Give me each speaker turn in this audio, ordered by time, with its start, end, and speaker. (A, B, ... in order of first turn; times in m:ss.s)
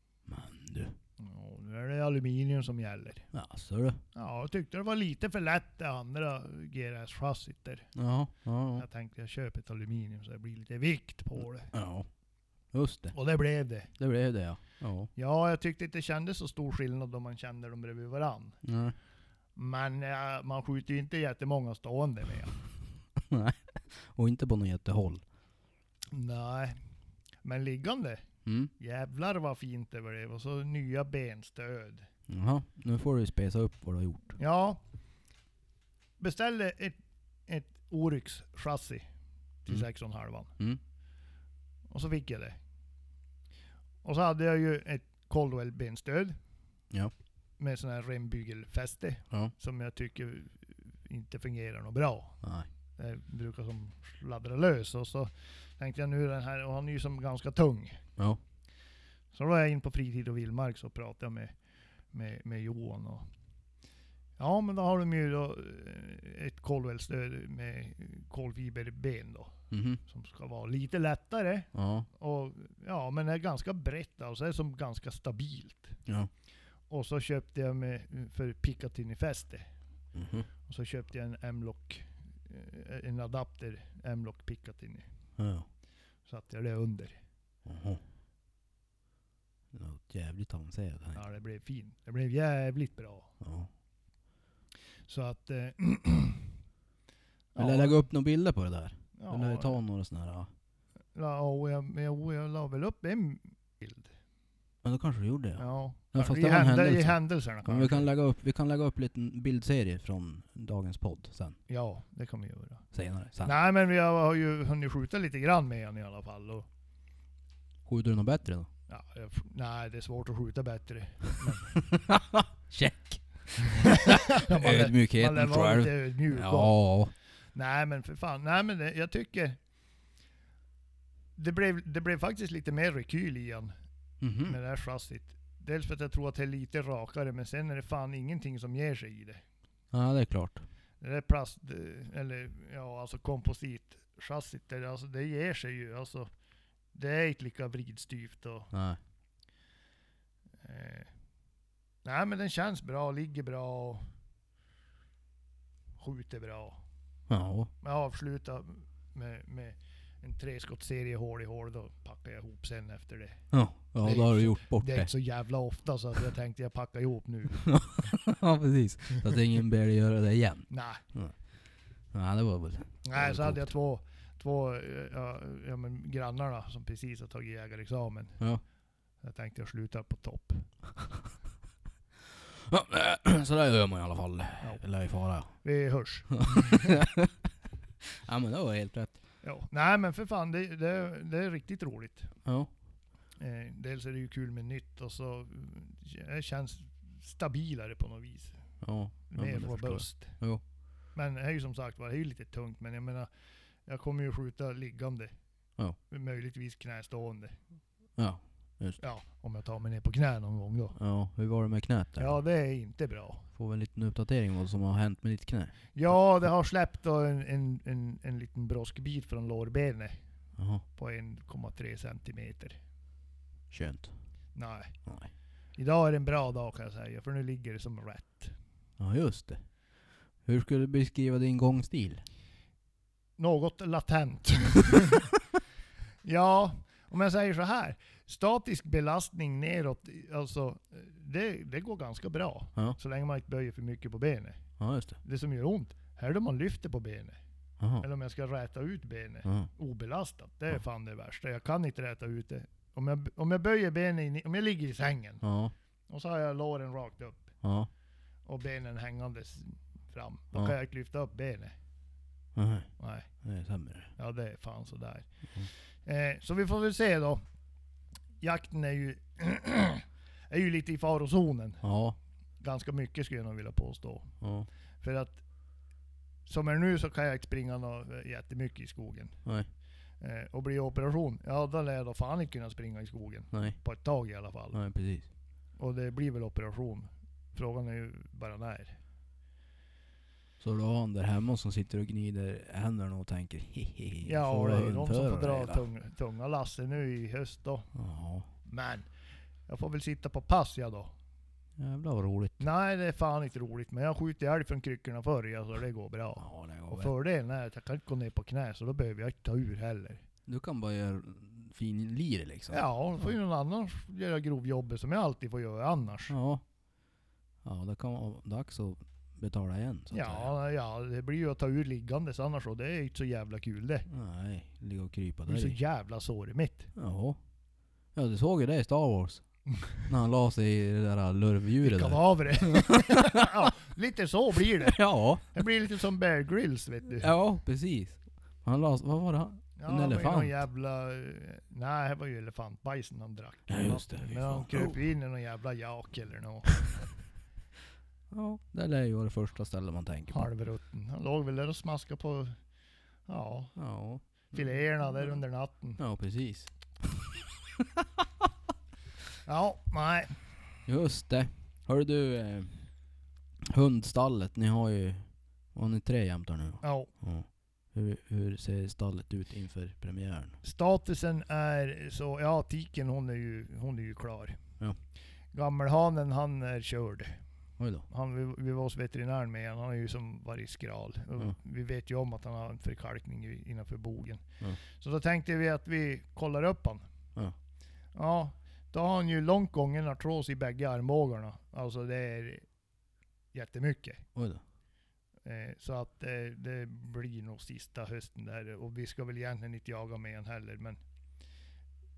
0:00.3-0:01.0 A
0:01.2-0:03.3 B
0:03.3-0:04.0 A
0:04.1-0:07.9 B
0:07.9-0:08.8 A
0:08.8-0:11.7 B
0:11.7-0:12.1 A
0:12.7-0:13.2 A
0:13.1-0:13.9 B
0:14.0-0:15.1 A
0:15.2-0:18.6 B
0:18.6-0:18.9 A
0:19.6-0:22.5 B
0:23.3-0:25.2 A
0:26.1-0:26.8 B
0:27.4-0:28.2 B
0:28.4-0:28.7 A
0:28.8-0:32.0 B
0:32.3-0:34.4 A
0:34.4-0:34.8 B
0:36.2-0:39.0 B
0:39.6-0:40.5 B
0:41.9-0:42.6 B
0:44.0-0:46.4 B
0:47.6-0:52.4 B
0:52.4-0:52.7 A
0:53.0-0:58.0 B
0:59.3-1:01.5 B
1:02.1-1:03.2 B
1:04.4-1:16.0 B
1:09.7-1:10.0 A
1:11.7-1:12.1 A
1:16.9-1:19.7 B
1:20.1-1:20.5 A
1:20.6-1:25.0 B
1:25.4-1:25.7 A
1:26.2-1:27.2 B
1:27.6-1:28.0 A
1:29.7-1:31.2 A
1:31.1-1:33.3 B
1:33.4-1:33.7 A
1:35.0-1:36.5 B
1:37.5-1:38.0 B
1:37.6-1:40.5 A
1:39.2-1:39.8 B
1:41.1-1:44.1 B
1:44.8-1:51.6 A
1:45.6-1:48.1 B
1:51.7-1:52.9 B
1:52.9-1:53.5 A
1:53.4-1:56.7 B
1:57.8-1:58.7 A
1:58.9-2:01.7 B
2:01.9-2:07.1 A
2:03.8-2:06.8 B
2:07.5-2:09.6 B
2:11.4-2:13.7 B
2:14.2-2:14.6 A
2:14.4-2:19.4 B
2:19.9-2:20.6 A
2:21.0-2:26.3 B
2:26.9-2:28.7 B
2:28.7-2:29.0 A
2:30.6-2:31.1 B
2:32.0-2:34.0 B
2:36.0-2:36.8 B
2:37.3-2:37.7 A
2:37.8-2:43.4 B
2:43.5-2:45.1 A
2:44.0-2:47.8 B
2:47.6-2:51.6 A
2:50.7-2:51.0 B
2:52.1-2:53.7 A
2:53.0-2:58.4 B
2:59.2-3:00.7 B
3:02.5-3:05.7 A
3:04.6-3:04.9 B
3:05.5-3:06.9 B
3:06.3-3:07.3 A
3:08.2-3:09.2 A
3:09.4-3:12.3 B
3:12.4-3:12.7 A
3:13.4-3:18.6 B
3:18.8-3:20.6 A
3:19.3-3:20.4 B
3:21.1-3:23.3 B
3:23.8-3:25.3 B
3:26.1-3:27.6 B
3:28.2-3:29.0 A
3:29.0-3:31.0 B
3:31.0-3:32.4 A
3:32.2-3:33.5 B
3:33.5-3:36.0 A
3:35.9-3:40.2 B
3:40.6-3:40.8 A
3:41.0-3:42.8 B
3:43.7-3:44.1 A
3:44.5-3:45.0 B
3:45.8-3:48.5 B
3:49.0-3:49.7 A
3:50.4-3:52.2 A
3:53.4-3:55.3 B
3:56.2-4:07.4 B
4:04.8-4:05.2 A
4:07.8-4:08.0 A
4:08.0-4:15.4 B
4:09.4-4:09.7 A
4:15.4-4:15.7 A
4:16.1-4:17.5 B
4:17.6-4:17.9 A
4:18.4-4:21.7 B
4:22.5-4:24.1 A
4:23.0-4:23.3 B
4:24.2-4:27.4 B
4:28.4-4:31.8 B
4:31.8-4:32.2 A
4:32.6-4:34.4 B
4:34.4-4:34.7 A
4:35.0-4:35.4 B
4:36.4-4:39.4 B
4:40.2-4:44.8 B
4:43.5-4:43.8 A
4:44.7-4:45.3 A
4:45.8-4:49.0 B
4:50.6-4:55.8 A
4:54.2-4:57.9 B
4:57.9-4:58.5 A
4:58.6-4:59.1 B
4:59.7-5:01.1 B
5:01.8-5:02.6 A
5:02.6-5:10.2 B
5:06.4-5:07.1 A
5:10.5-5:13.3 A
5:12.7-5:16.3 B
5:16.3-5:16.6 A
5:17.6-5:20.6 A
5:20.1-5:24.0 B
5:24.1-5:25.8 A
5:25.5-5:26.9 B
5:27.0-5:27.4 A
5:28.1-5:33.5 A
5:31.8-5:37.3 B
5:34.8-5:35.5 A
5:37.2-5:40.6 A
5:39.8-5:47.1 B
5:43.7-5:45.0 A
5:48.3-5:50.5 A
5:50.3-5:52.6 B
5:53.2-5:53.8 B
5:53.8-5:55.3 A
5:54.4-5:56.0 B
5:56.0-5:57.4 A
5:59.4-6:00.4 B
6:00.9-6:03.0 A
6:03.7-6:10.6 A
6:06.8-6:07.1 B
6:10.6-6:14.6 B
6:15.5-6:17.4 B
6:17.8-6:18.0 A
6:18.1-6:27.0 B
6:28.1-6:32.7 B
6:33.5-6:34.2 B
6:34.3-6:34.6 A
6:35.4-6:41.0 B